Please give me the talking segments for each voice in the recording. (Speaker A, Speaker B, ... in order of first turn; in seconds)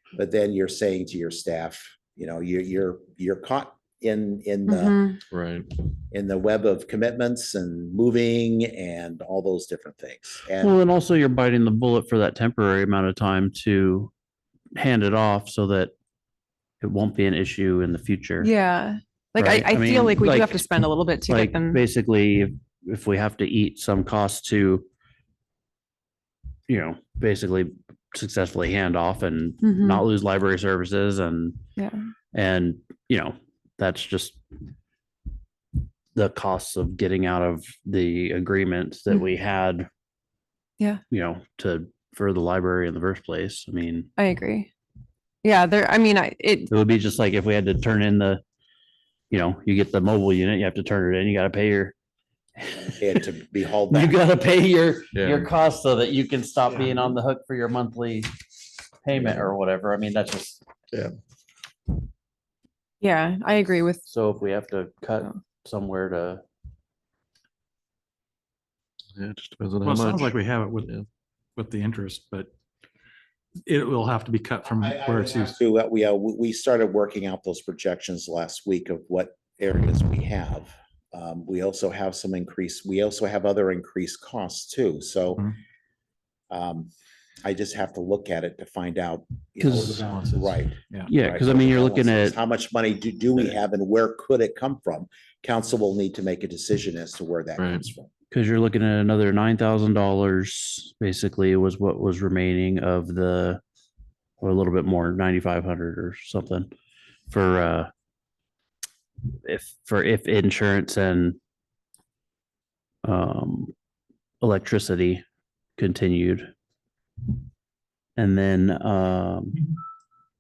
Speaker A: 0.1-5.0, 6.1-10.8, 53.0-54.2, 74.7-85.5, 86.5-86.9, 87.4-98.1
Speaker B: 4.7-5.2, 18.4-21.8, 29.6-30.0, 44.2-44.7, 45.4-46.7, 63.0-64.0
Speaker C: 5.3-5.7, 55.1-55.5, 59.1-59.5, 69.2-71.0, 97.6-97.8
Speaker D: 10.6-14.1, 14.8-15.9, 16.8-18.5, 19.4-20.7, 21.2-24.9, 26.7-31.6, 32.3-34.4, 36.1-39.9, 41.1-44.1, 46.7-48.4, 49.3-51.9, 52.6-53.2, 53.9-58.3, 59.0-60.6, 64.1-66.4, 89.6-90.0, 91.0-92.3, 98.3-103.6, 104.4-106.7, 107.3-107.9, 109.3-111.4, 113.0-113.7, 114.4-115.2, 115.8-116.5, 118.2-119.7
Speaker E: 69.8-70.9, 71.6-72.5, 73.7-75.5, 89.9-91.1